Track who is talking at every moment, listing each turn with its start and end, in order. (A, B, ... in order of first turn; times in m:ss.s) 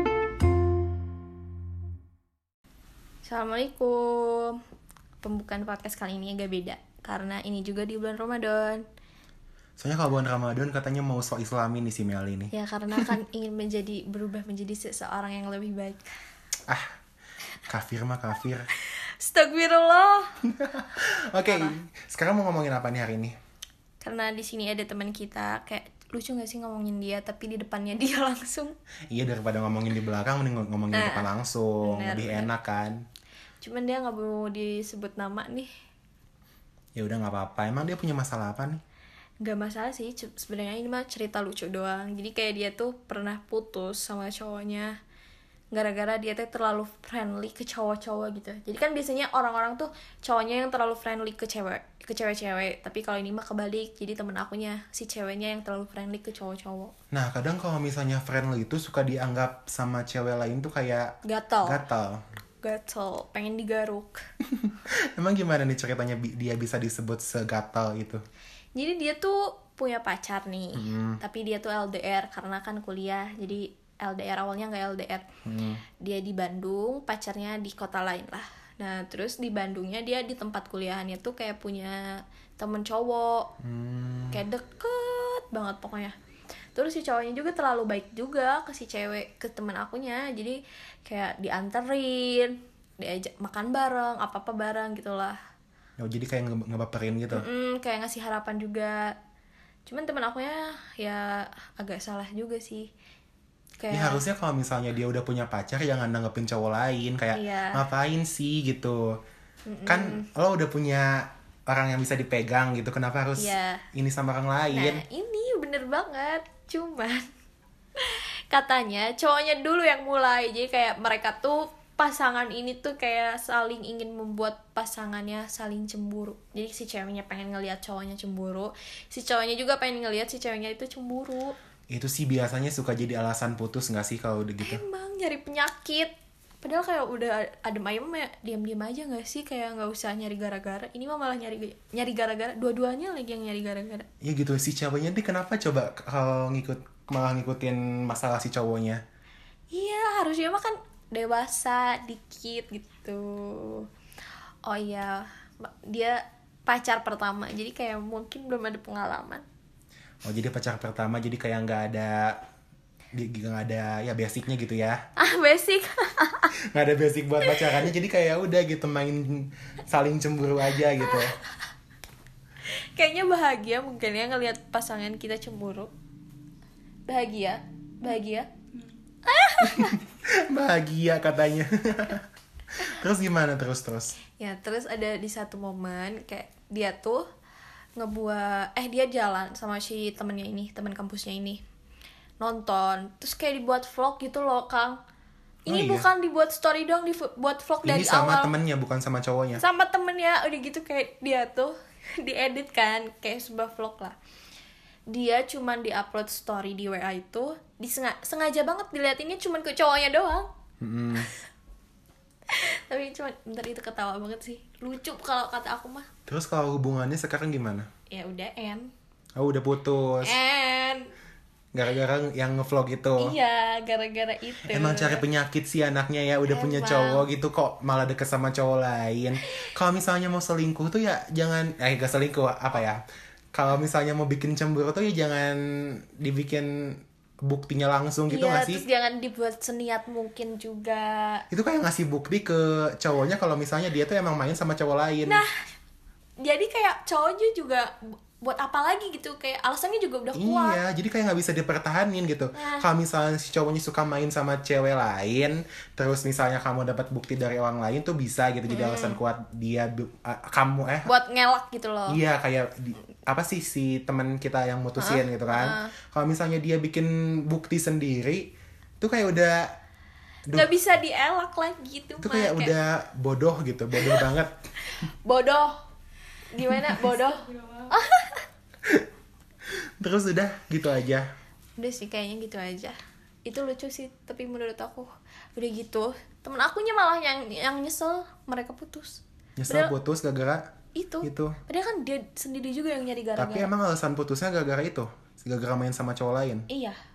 0:03.2-0:04.6 A
0:05.2-0:08.8 A
0:09.8-0:12.5 B
0:12.5-0:16.1 A
0:16.7-0:16.9 B
0:17.7-0:18.7 B
0:18.8-0:20.4 A
0:20.4-0:23.4 B
0:21.5-0:21.8 A
0:24.0-0:28.8 A
0:29.1-0:33.0 B
0:30.9-0:32.5 A
0:33.6-0:35.7 A
0:37.0-0:38.8 B
0:39.4-0:44.9 A
0:45.7-0:56.9 A
0:57.1-1:02.2 B
1:01.2-1:01.8 A
1:02.6-1:04.2 A
1:04.6-1:08.2 B
1:08.8-1:15.3 A
1:10.8-1:11.2 B
1:15.4-1:15.8 B
1:16.0-1:23.5 A
1:23.6-1:24.4 B
1:24.3-1:26.2 A
1:26.8-1:35.4 A
1:36.0-1:37.4 B
1:37.3-1:39.2 A
1:39.9-1:42.9 A
1:43.8-1:44.2 A
1:43.9-1:49.2 B
1:47.3-1:47.8 A
1:49.7-1:50.3 A
1:49.9-1:55.0 B
1:53.4-1:53.8 A
1:54.7-1:57.3 A
1:58.0-2:11.6 A
2:11.9-2:14.8 B
2:14.6-2:24.1 A
2:24.2-2:29.0 B
2:29.7-2:33.9 A
2:34.6-2:39.4 A
2:40.2-2:42.4 B
2:43.2-2:45.0 B
2:45.2-2:46.5 A
2:46.7-2:51.4 B
2:47.4-2:47.9 A
2:52.6-2:55.9 A
2:57.1-2:58.5 A
2:59.2-3:00.0 A
2:59.6-3:04.1 B
3:04.4-3:07.3 A
3:08.0-3:11.6 A
3:12.4-3:15.0 A
3:15.7-3:18.5 A
3:15.7-3:16.1 B
3:17.8-3:19.6 B
3:19.6-3:24.2 A
3:25.1-3:30.5 A
3:30.8-3:31.3 B
3:32.5-3:36.1 A
3:36.3-3:37.9 B
3:38.1-3:38.9 A
3:39.4-3:40.4 B
3:40.2-3:41.1 A
3:41.7-3:43.4 B
3:43.2-3:45.3 A
3:44.7-3:53.0 B
3:46.5-3:47.3 A
3:53.5-3:58.8 B
3:58.3-4:01.5 A
4:01.5-4:05.4 B
4:05.3-4:05.6 A
4:06.4-4:10.8 A
4:10.3-4:21.1 B
4:12.5-4:12.8 A
4:18.7-4:19.2 A
4:21.0-4:22.2 A
4:22.1-4:29.7 B
4:25.0-4:25.9 A
4:30.5-4:32.8 A
4:32.2-4:34.7 B
4:34.0-4:34.3 A
4:34.8-4:35.8 A
4:36.5-4:38.5 A
4:40.0-4:41.3 B
4:41.8-4:49.9 A
4:49.6-4:50.7 B
4:51.0-4:53.7 A
4:51.2-4:51.6 B
4:53.4-4:56.7 B
4:56.7-4:57.0 A